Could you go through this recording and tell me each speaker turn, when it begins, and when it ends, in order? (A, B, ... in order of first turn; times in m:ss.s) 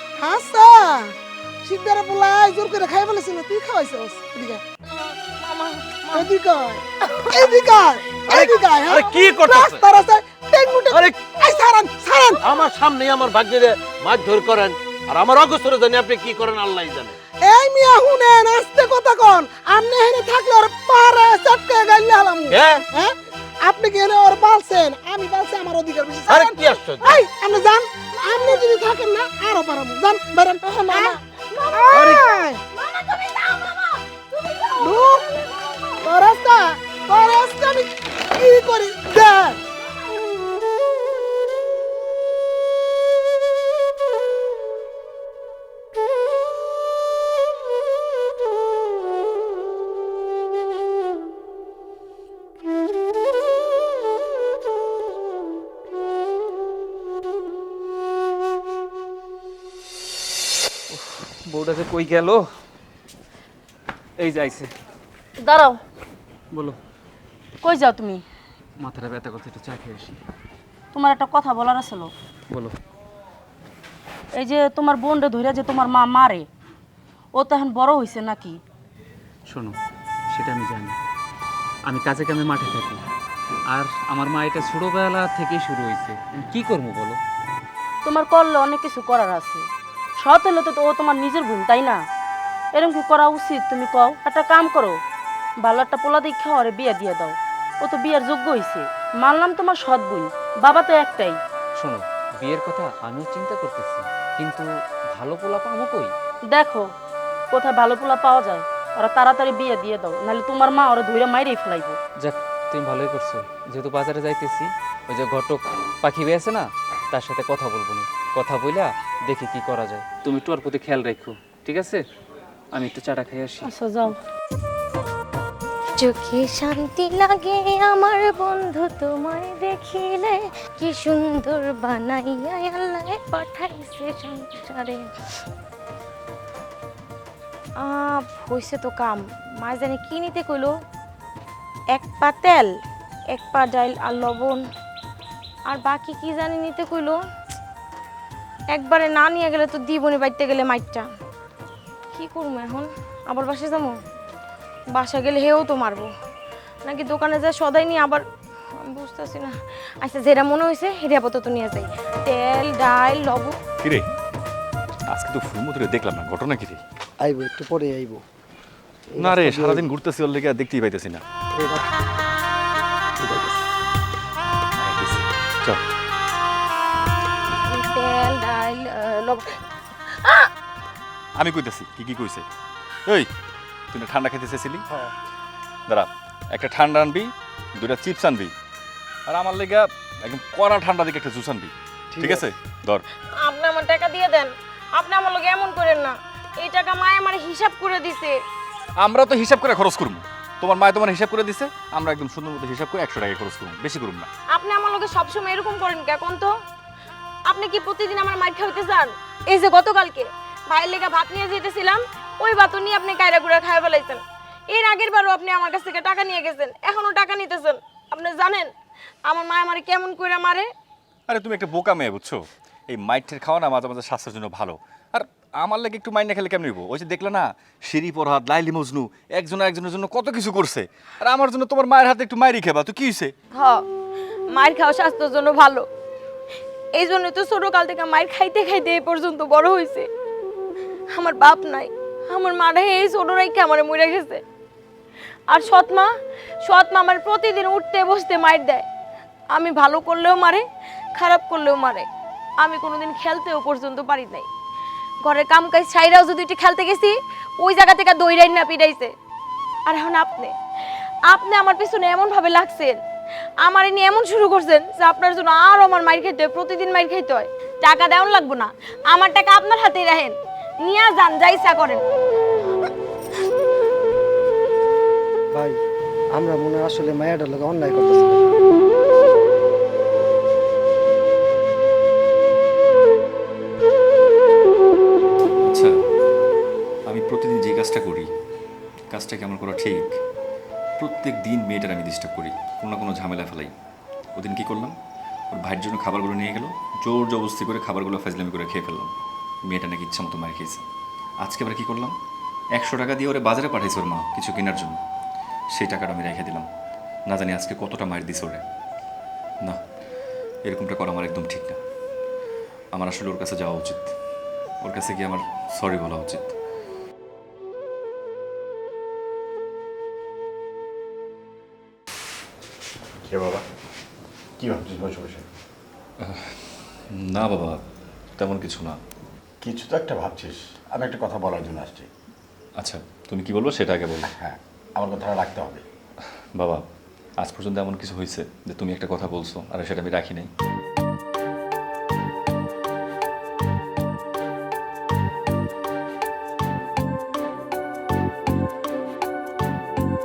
0:00.2-0:01.1 A
0:01.6-0:04.6 A
0:04.9-0:06.3 B
0:06.1-0:12.4 A
0:07.0-0:07.5 B
0:08.3-0:09.9 C
0:10.8-0:11.3 C
0:12.4-0:17.2 C
0:17.5-0:31.2 A
0:22.5-0:22.8 C
0:26.3-0:27.0 C
0:30.9-0:36.0 B
0:31.7-0:32.6 A
0:31.9-0:32.3 C
0:34.8-0:35.3 A
0:36.0-0:39.6 A
0:39.9-0:40.2 B
1:00.9-1:02.5 D
1:04.2-1:04.7 D
1:05.4-1:05.8 E
1:06.5-1:06.8 D
1:07.6-1:08.2 E
1:08.8-1:10.2 D
1:10.9-1:12.1 E
1:12.5-1:12.8 D
1:14.4-1:16.5 E
1:17.4-1:18.6 E
1:19.5-1:19.8 D
1:20.3-1:21.0 D
1:21.9-1:23.0 D
1:23.7-1:27.2 D
1:28.0-1:29.7 E
1:30.2-1:32.0 E
1:32.8-1:35.0 E
1:35.6-1:41.4 E
1:41.8-1:46.1 D
1:46.5-1:46.9 E
1:47.5-1:52.0 E
1:52.2-2:02.0 D
2:02.7-2:03.7 D
2:03.6-2:04.2 E
2:06.0-2:15.1 B
2:17.8-2:20.7 B
2:21.9-2:22.7 B
2:23.3-2:24.6 B
2:25.7-2:27.2 B
2:28.7-2:31.1 B
2:32.1-2:34.0 B
2:35.0-2:36.1 B
2:36.8-2:43.6 B
2:43.8-2:44.1 F
2:45.1-2:46.8 F
2:47.2-2:48.2 G
2:49.1-2:49.9 G
2:49.2-2:51.2 F
2:51.6-2:51.8 G
2:53.2-2:53.6 G
2:54.8-2:55.3 F
2:57.7-2:59.6 B
3:00.1-3:00.5 B
3:01.4-3:02.4 F
3:03.9-3:04.8 F
3:05.9-3:08.5 F
3:09.3-3:13.0 F
3:12.2-3:12.5 G
3:13.4-3:18.4 B
3:19.0-3:24.3 F
3:24.5-3:26.5 B
3:27.5-3:38.7 B
3:39.3-3:40.7 B
3:41.3-3:53.3 F
3:53.6-3:53.8 B
3:54.5-3:55.9 B
3:57.0-4:00.1 B
4:01.1-4:04.4 B
4:05.5-4:06.1 B
4:06.6-4:08.9 B
4:09.5-4:12.1 B
4:12.6-4:14.5 B
4:15.2-4:19.1 B
4:19.9-4:20.6 B
4:21.3-4:23.0 B
4:23.6-4:32.0 B
4:36.3-4:38.5 G
4:45.6-4:46.0 F
4:47.1-4:48.3 F
4:49.1-4:50.2 F
4:51.0-4:53.7 F
4:54.4-4:55.0 F
4:55.5-4:59.1 F
4:59.7-5:00.8 F
5:01.4-5:02.1 F
5:02.7-5:05.0 F
5:05.7-5:06.7 F
5:07.3-5:08.6 F
5:10.6-5:11.8 F
5:12.9-5:14.1 F
5:14.8-5:16.6 F
5:23.3-5:23.6 H
5:24.6-5:25.4 H
5:26.2-5:27.8 F
5:28.4-5:29.0 F
5:29.6-5:32.1 H
5:32.8-5:34.3 F
5:34.2-5:35.8 H
5:36.6-5:36.8 F
5:37.4-5:40.5 F